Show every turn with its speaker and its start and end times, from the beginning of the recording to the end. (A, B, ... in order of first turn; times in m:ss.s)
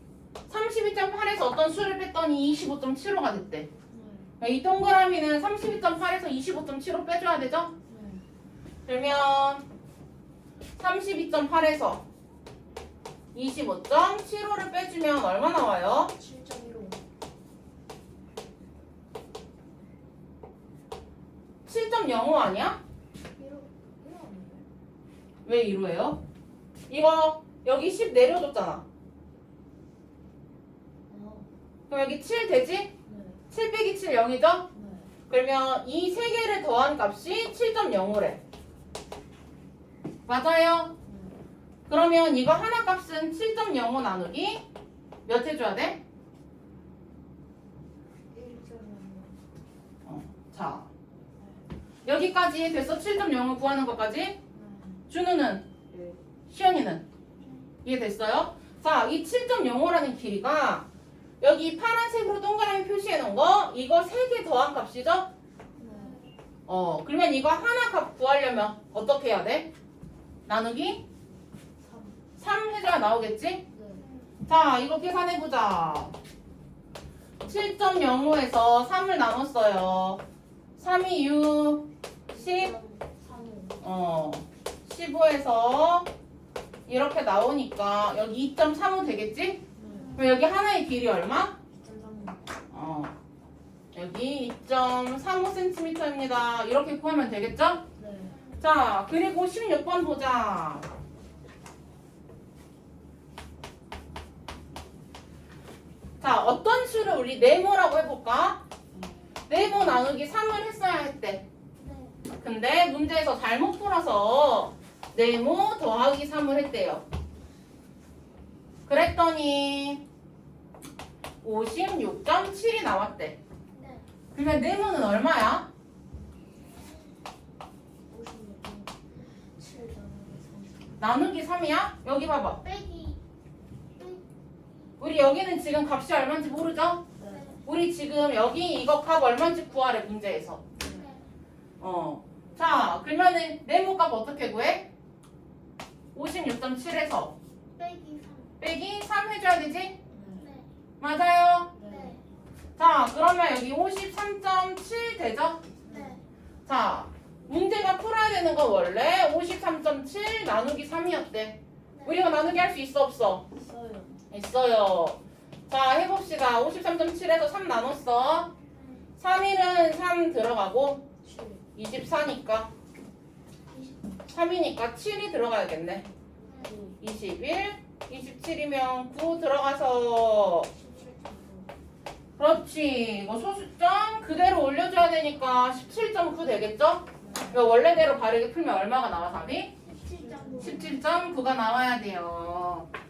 0:00.5-0:03.7 A
0:03.9-0:04.3 B
0:04.4-0:07.7 A
0:07.9-0:08.2 B
0:08.9-0:09.6 A
0:10.8-0:12.0 A
0:13.3-0:16.1 A
0:16.1-0:17.0 B
0:21.7-0:22.8 A
0:23.4-0:24.7 B
0:25.4-0:26.2 A
0:26.9-0:28.9 A
0:31.1-0:31.5 B
0:31.9-0:32.9 A
0:33.1-0:33.4 B
0:33.5-0:34.7 A
0:34.7-0:35.1 B
0:35.3-0:38.4 A
0:40.3-0:41.0 A
0:41.0-0:41.4 B
0:41.9-0:44.6 A
0:45.3-0:46.0 A
0:48.3-0:49.4 B
0:50.0-0:50.9 A
0:52.0-0:54.4 A
0:54.5-0:55.1 B
0:55.1-0:55.7 A
0:56.5-0:57.0 A
0:57.4-0:57.7 C
0:57.8-1:00.9 A
1:01.4-1:05.3 A
1:05.8-1:06.2 B
1:05.8-1:06.3 C
1:06.7-1:09.7 A
1:10.5-1:11.0 A
1:11.8-1:12.2 B
1:12.4-1:13.7 A
1:13.7-1:14.0 B
1:14.0-1:14.3 C
1:14.5-1:16.2 A
1:17.4-1:20.2 A
1:20.8-1:22.7 A
1:22.3-1:23.8 B
1:23.8-1:26.1 A
1:26.9-1:29.6 A
1:29.8-1:30.2 B
1:29.9-1:30.4 C
1:30.2-1:31.6 A
1:31.8-1:32.4 B
1:32.7-1:33.1 A
1:33.9-1:37.8 A
1:38.0-1:38.4 B
1:38.3-1:38.6 C
1:38.6-1:40.9 A
1:46.2-1:48.6 A
1:48.9-1:49.3 B
1:49.5-1:51.4 A
1:51.8-1:52.2 C
1:52.3-1:57.0 A
1:58.9-2:00.0 A
2:01.4-2:03.4 A
2:03.8-2:04.0 C
2:04.3-2:05.7 A
2:08.1-2:11.0 B
2:11.0-2:12.6 A
2:12.6-2:13.2 C
2:14.0-2:14.2 C
2:15.0-2:17.0 A
2:17.2-2:17.5 B
2:17.2-2:17.6 C
2:17.6-2:20.6 A
2:20.8-2:21.0 B
2:20.8-2:21.3 C
2:21.8-2:24.9 A
2:26.1-2:27.4 A
2:27.8-2:28.6 C
2:28.6-2:30.0 A
2:30.1-2:30.5 B
2:30.4-2:30.7 C
2:31.0-2:31.7 A
2:31.8-2:32.2 B
2:31.9-2:32.2 C
2:32.8-2:35.6 A
2:35.8-2:36.2 B
2:35.9-2:36.2 C
2:36.7-2:43.4 A
2:42.0-2:42.3 C
2:43.5-2:44.2 B
2:44.3-2:48.5 A
2:48.7-2:49.0 C
2:49.2-2:51.0 A
2:51.2-2:51.6 B
2:51.8-2:52.7 A
2:53.7-2:54.2 C
2:54.3-2:56.0 A
2:56.4-2:56.8 C
2:56.6-2:57.0 B
2:57.0-3:00.7 A
3:00.8-3:01.7 B
3:02.4-3:09.7 A
3:07.2-3:07.6 B
3:09.8-3:11.1 C
3:10.2-3:11.0 B
3:10.6-3:12.9 A